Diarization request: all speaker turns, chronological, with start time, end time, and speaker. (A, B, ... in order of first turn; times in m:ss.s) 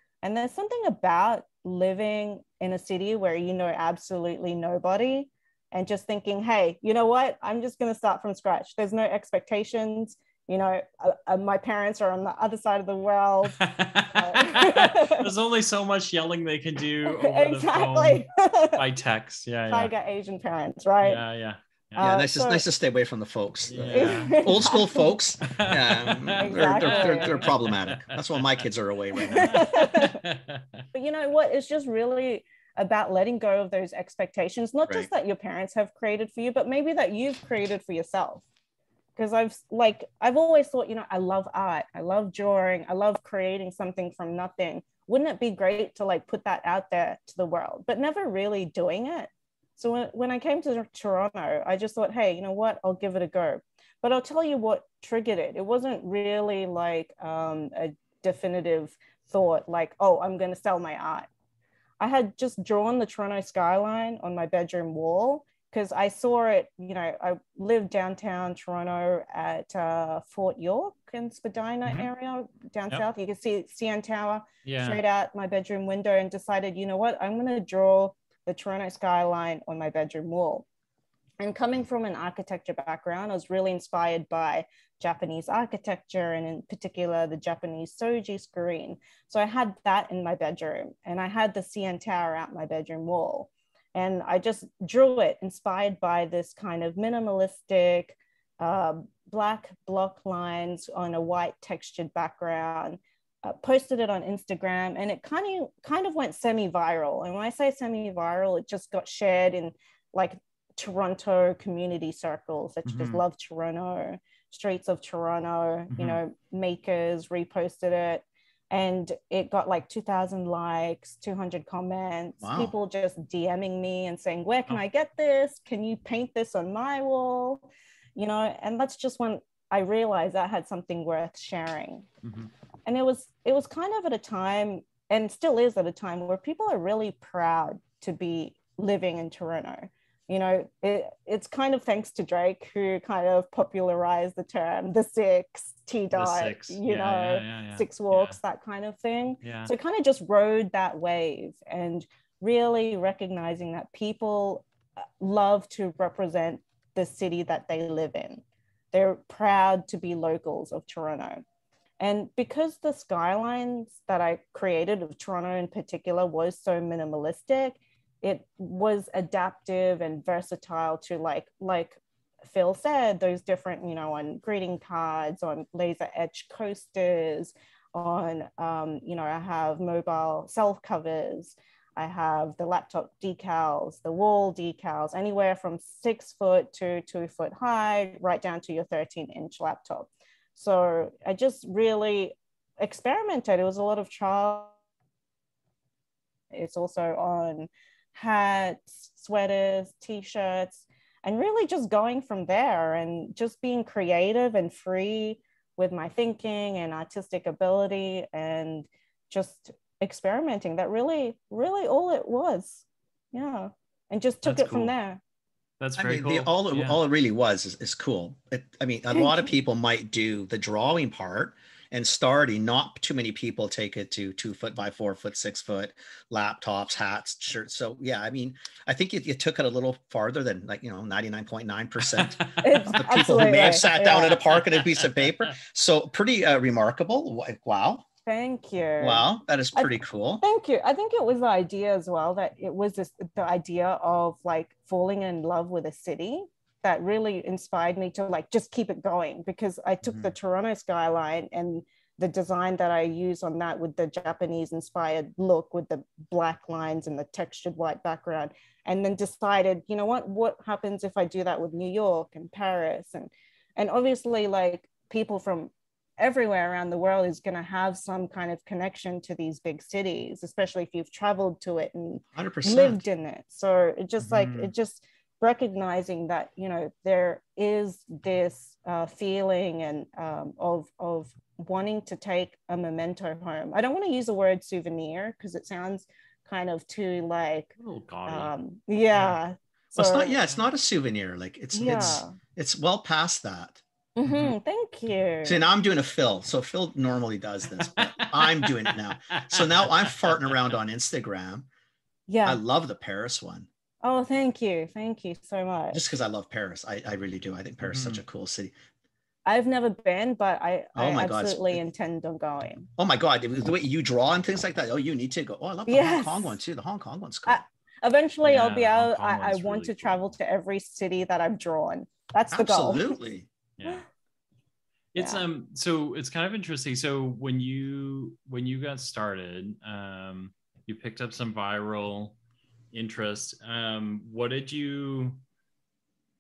0:00.2-0:13.6 A
0:13.5-0:19.9 B
0:14.2-0:15.3 A
0:17.1-0:18.8 A
0:19.7-0:21.2 A
0:21.0-0:22.1 B
0:22.0-0:22.6 A
0:22.0-0:29.7 C
0:23.7-0:24.8 B
0:23.9-0:25.2 A
0:25.4-0:28.6 B
0:26.4-0:27.4 A
0:29.2-0:30.2 A
0:29.3-0:30.8 B
0:30.9-0:38.4 A
0:39.2-1:01.3 A
1:02.0-1:20.7 A
1:14.6-1:15.0 B
1:21.4-2:12.1 A
1:52.8-1:53.2 B
1:55.9-1:56.2 B
2:02.4-2:02.7 C
2:12.2-2:12.5 B
2:12.9-2:34.7 A
2:26.1-2:28.4 B
2:29.4-2:29.7 B
2:35.2-2:41.4 A
2:42.0-3:14.7 A
3:16.5-3:35.2 A
3:34.4-3:34.9 B
3:35.8-3:37.0 B
3:36.0-3:58.0 C
3:39.1-3:39.5 A
3:52.2-3:52.7 B
3:52.6-3:54.4 A
3:58.3-4:47.7 A
3:59.0-4:00.4 C
4:10.0-4:10.3 B
4:32.4-4:33.0 C
4:34.2-4:34.7 B
4:47.8-4:48.5 B
4:48.3-4:50.4 A
4:49.1-4:49.4 B
4:50.0-4:53.8 C
4:51.7-4:52.4 A
4:54.2-4:55.6 A
4:54.3-4:54.5 B
4:55.4-5:01.7 C
4:57.8-5:00.8 B
5:02.3-5:02.6 A
5:02.4-5:03.7 C
5:04.0-5:06.0 A
5:05.9-5:08.7 C
5:07.8-5:08.2 B
5:09.5-5:12.9 A
5:11.0-5:11.8 C
5:13.0-5:17.6 C
5:15.9-5:16.6 A
5:17.5-5:23.1 A
5:18.4-5:20.3 B
5:22.5-5:23.5 C
5:23.8-5:24.0 B
5:25.1-5:32.4 B
5:25.2-5:25.4 A
5:32.9-5:35.4 B